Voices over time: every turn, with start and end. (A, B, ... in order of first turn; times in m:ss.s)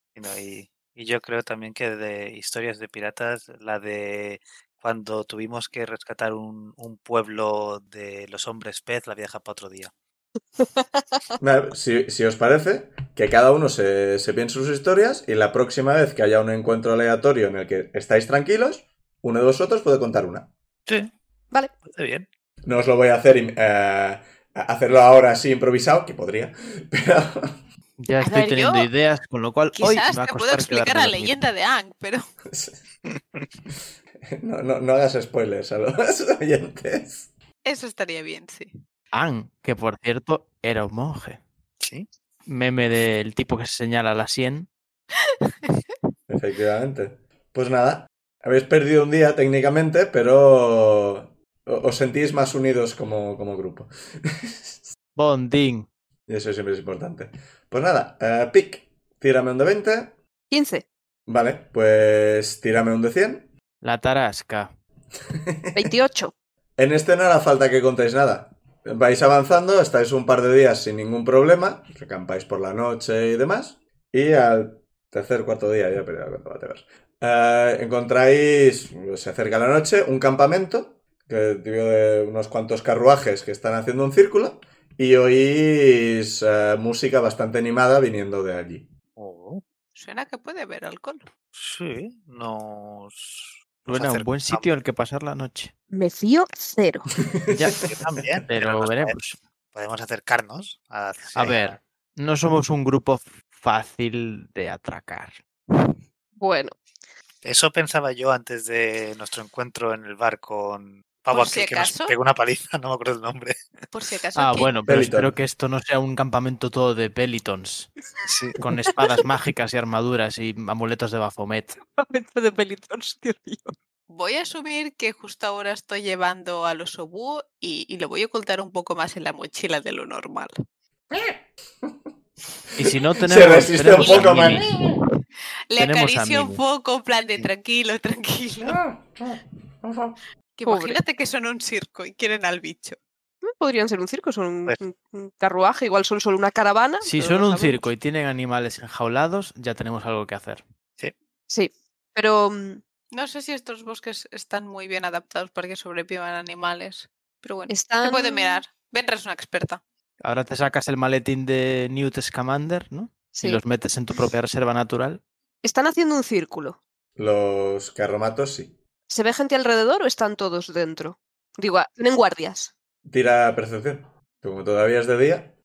0:00.1-0:09.9 A
0:10.6-0:11.0 B
0:11.4-0:20.5 C
0:20.9-0:21.1 A
0:21.8-0:22.3 A
0:22.6-0:27.6 C
0:28.0-0:31.4 D
0:28.2-0:28.9 E
0:29.8-0:32.3 E
0:32.5-0:32.8 C
0:34.3-0:37.3 C
0:37.6-0:38.8 E
0:39.1-0:41.4 D
0:41.8-0:42.1 A
0:42.5-0:44.7 D
0:46.3-0:54.9 C
0:55.2-0:55.9 D
0:56.3-1:00.2 C
1:00.5-1:00.9 B
1:01.3-1:03.5 C
1:03.8-1:04.7 D
1:05.3-1:05.9 C
1:05.7-1:06.3 B
1:06.8-1:28.9 C
1:29.2-1:29.6 A
1:29.9-1:31.3 E
1:31.6-1:34.7 A
1:33.9-1:35.7 D
1:35.9-1:37.1 B
1:37.3-1:37.7 C
1:37.5-1:39.4 D
1:37.7-1:39.2 A
1:39.7-1:41.7 A
1:41.3-1:45.4 D
1:46.4-1:46.7 B
1:47.4-1:53.6 A
1:51.3-1:52.1 E
1:53.9-1:54.7 E
1:54.3-1:57.9 D
1:54.9-1:55.4 C
1:58.3-1:58.6 A
1:58.6-2:01.8 D
1:58.9-1:59.2 B
2:01.8-2:03.7 B
2:04.1-2:10.5 E
2:11.1-2:12.0 C
2:12.8-2:14.7 D
2:13.2-2:14.7 C
2:14.0-2:15.0 E
2:15.7-2:18.8 E
2:15.8-2:16.6 D
2:18.6-2:20.2 C
2:20.6-2:23.0 E
2:20.6-2:21.0 B
2:23.4-2:27.9 B
2:27.0-2:30.6 D
2:31.5-2:32.8 B
2:33.1-2:39.8 E
2:37.7-2:38.6 B
2:40.2-2:45.2 D
2:43.3-2:43.6 B
2:45.6-2:46.8 B
2:47.2-2:48.8 C
2:49.1-2:52.7 B
2:53.0-2:55.5 C